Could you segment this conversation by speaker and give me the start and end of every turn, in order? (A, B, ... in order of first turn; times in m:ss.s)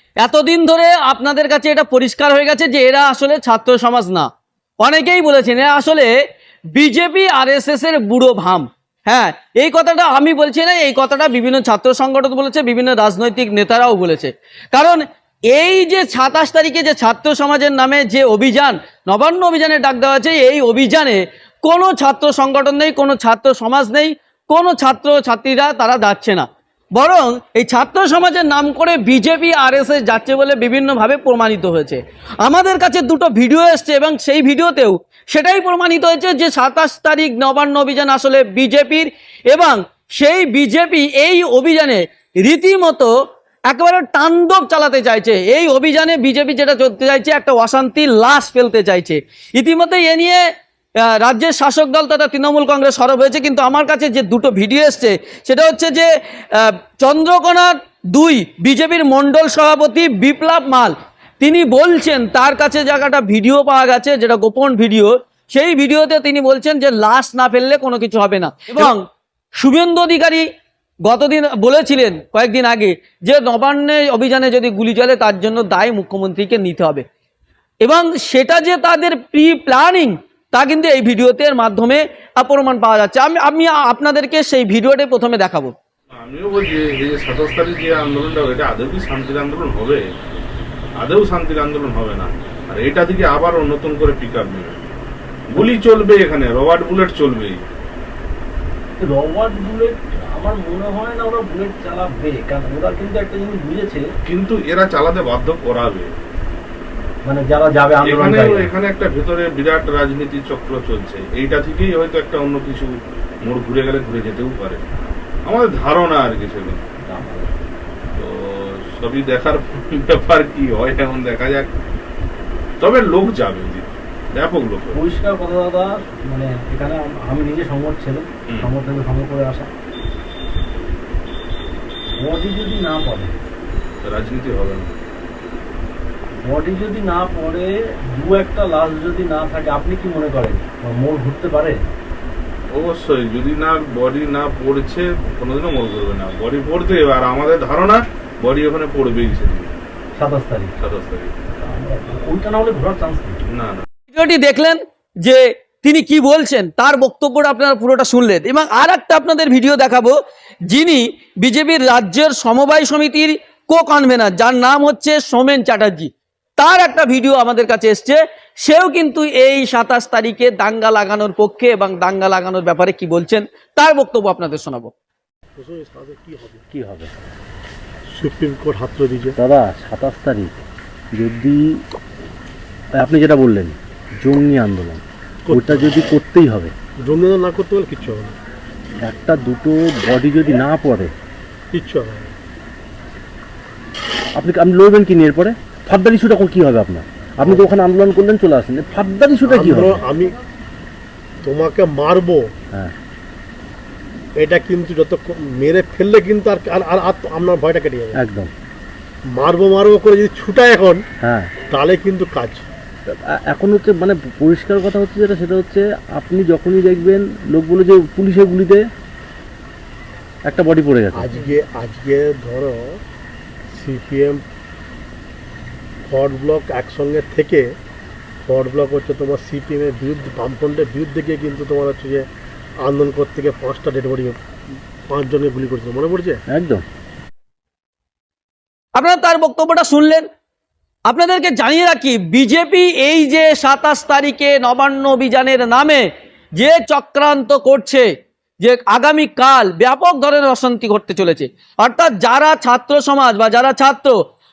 0:00.2-0:04.3 A
0:04.8-0:06.1 A
0:06.7-0:43.1 A
0:43.7-0:50.4 A
0:51.0-1:09.0 A
1:09.6-1:10.4 A
1:11.0-1:17.0 A
1:17.8-1:25.7 A
1:26.1-1:30.0 B
1:31.0-1:34.9 B
1:35.5-1:37.6 B
1:39.0-1:44.0 C
1:44.2-1:46.1 B
1:47.2-1:48.7 C
1:48.0-1:52.9 B
1:53.4-1:54.8 B
1:55.4-1:56.8 B
1:57.1-1:57.5 C
1:58.1-2:01.7 B
2:02.8-2:05.0 B
2:04.9-2:09.7 C
2:12.2-2:13.3 C
2:14.0-2:15.0 B
2:16.4-2:21.8 C
2:22.7-2:29.7 B
2:30.2-2:30.7 C
2:30.8-2:31.3 B
2:31.6-2:33.4 C
2:33.5-2:33.8 B
2:34.1-2:40.2 A
2:40.7-2:54.9 A
2:55.6-2:56.6 D
2:56.7-2:57.1 E
2:58.1-2:59.4 D
2:59.4-3:00.6 E
3:01.2-3:01.8 E
3:03.0-3:06.7 E
3:05.4-3:05.9 D
3:07.0-3:08.3 D
3:09.0-3:11.1 E
3:11.7-3:12.3 D
3:14.4-3:20.0 E
3:17.4-3:17.7 D
3:19.4-3:20.4 D
3:21.4-3:22.4 D
3:24.4-3:28.2 D
3:28.2-3:28.5 E
3:29.3-3:31.0 D
3:31.2-3:31.5 E
3:31.7-3:32.6 D
3:33.5-3:38.8 E
3:40.4-3:41.3 E
3:41.1-3:43.0 D
3:43.7-3:44.4 D
3:46.1-3:47.6 D
3:48.4-3:52.2 D
3:52.8-3:54.4 D
3:55.1-3:56.4 D
3:56.5-3:56.8 E
3:59.0-4:00.2 A
4:01.1-4:08.1 A
4:08.6-4:14.2 A